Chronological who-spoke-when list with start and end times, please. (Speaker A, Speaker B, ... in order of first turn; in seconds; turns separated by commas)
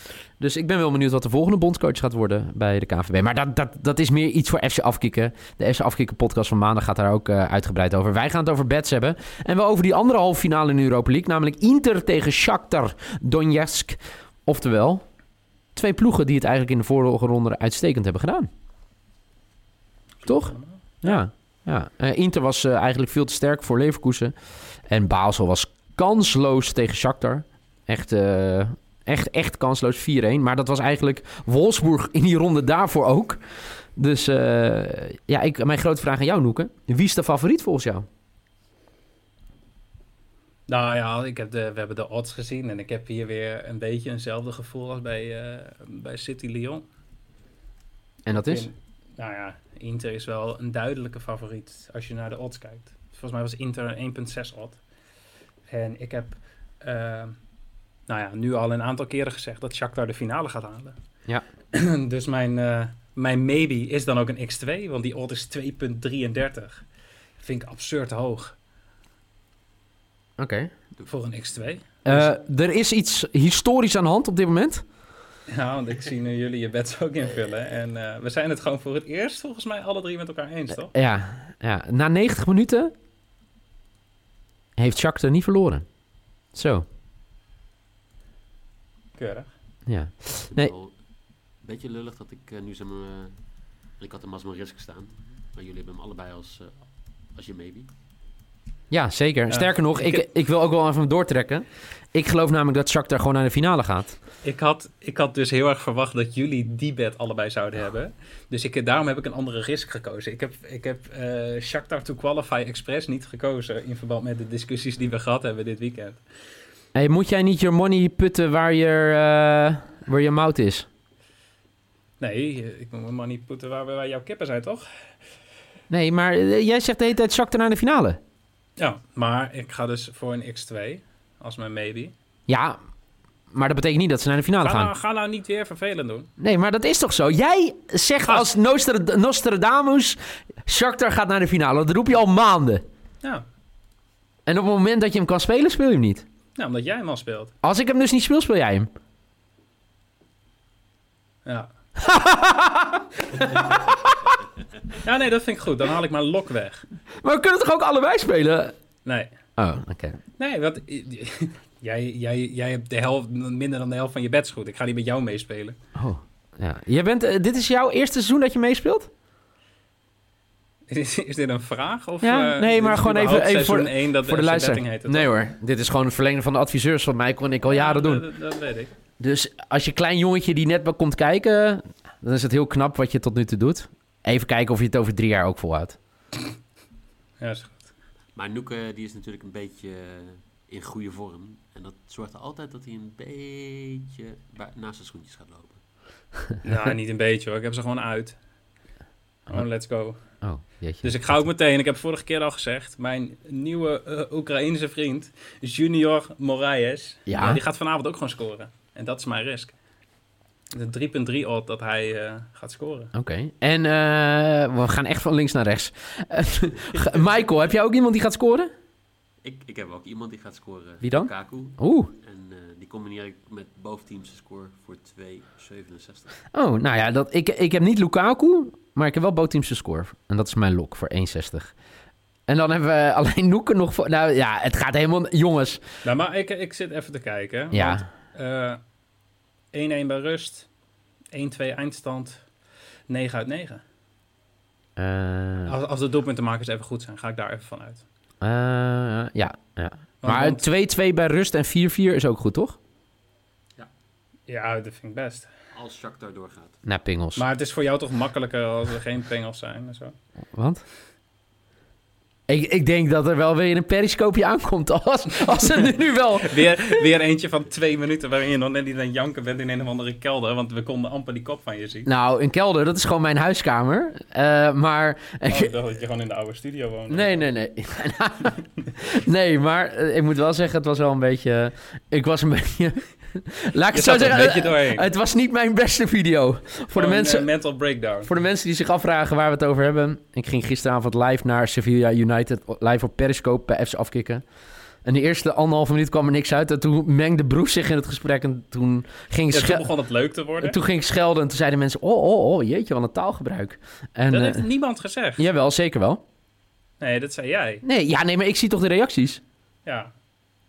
Speaker A: 0.4-15.0, Speaker A: 15.8-18.5, Speaker A: 20.2-24.3, Speaker B: 20.3-21.2, Speaker A: 24.9-33.4, Speaker A: 34.0-38.0, Speaker B: 40.7-46.9, Speaker A: 48.3-48.7, Speaker B: 48.4-54.8, Speaker B: 55.7-57.4, Speaker B: 58.1-61.0, Speaker B: 61.7-66.8, Speaker B: 67.4-68.5, Speaker A: 70.4-70.7, Speaker B: 71.0-72.4, Speaker A: 72.1-74.8, Speaker B: 75.5-80.9, Speaker A: 80.9-82.9, Speaker A: 84.8-85.9, Speaker A: 86.5-86.8, Speaker B: 89.2-89.5, Speaker A: 89.9-90.7, Speaker C: 90.5-91.0, Speaker C: 91.6-93.4, Speaker C: 94.0-97.9, Speaker A: 98.9-104.2, Speaker B: 99.5-100.3, Speaker B: 104.4-116.2, Speaker A: 116.9-120.9, Speaker B: 122.2-124.9, Speaker A: 125.9-128.2, Speaker B: 128.8-132.1, Speaker A: 132.5-132.8, Speaker A: 133.5-134.9, Speaker B: 134.6-136.3, Speaker A: 136.4-142.8, Speaker B: 138.2-138.6, Speaker A: 144.5-146.2, Speaker B: 146.6-147.5, Speaker A: 147.6-148.9, Speaker B: 151.4-151.7, Speaker A: 152.0-154.4, Speaker B: 153.6-153.9, Speaker B: 154.9-156.9, Speaker A: 157.2-158.8, Speaker B: 159.1-159.3, Speaker A: 159.6-160.2, Speaker B: 160.4-165.8, Speaker A: 166.0-169.1, Speaker B: 170.9-175.3, Speaker A: 172.2-178.3, Speaker B: 177.7-178.9, Speaker A: 179.2-186.0, Speaker B: 187.4-187.9, Speaker C: 188.3-195.8, Speaker B: 196.6-198.4, Speaker B: 199.5-200.2, Speaker A: 200.4-201.5, Speaker B: 201.0-209.8, Speaker A: 207.3-207.6, Speaker B: 210.7-213.1, Speaker A: 213.2-218.7, Speaker C: 219.4-226.4, Speaker A: 221.0-222.1, Speaker A: 226.5-231.7, Speaker A: 232.5-235.8, Speaker B: 236.0-238.8, Speaker A: 237.7-238.0, Speaker B: 239.7-240.7, Speaker B: 241.3-242.4, Speaker B: 243.1-243.8, Speaker A: 245.0-245.8, Speaker B: 245.7-248.1, Speaker A: 248.4-252.8, Speaker B: 250.2-250.7, Speaker B: 254.5-255.5, Speaker C: 255.7-256.8, Speaker A: 256.9-257.5, Speaker B: 257.4-260.1, Speaker A: 260.5-260.8, Speaker A: 262.5-267.1, Speaker B: 265.5-272.1, Speaker A: 272.1-275.8, Speaker B: 275.5-277.4, Speaker A: 277.1-287.5, Speaker B: 283.9-285.1, Speaker B: 286.9-288.3, Speaker A: 288.2-294.4, Speaker A: 295.1-299.9, Speaker B: 299.5-300.8, Speaker A: 300.6-304.7, Speaker B: 304.3-305.5, Speaker A: 305.4-306.2, Speaker B: 307.0-307.8, Speaker A: 307.8-309.4, Speaker B: 309.9-310.1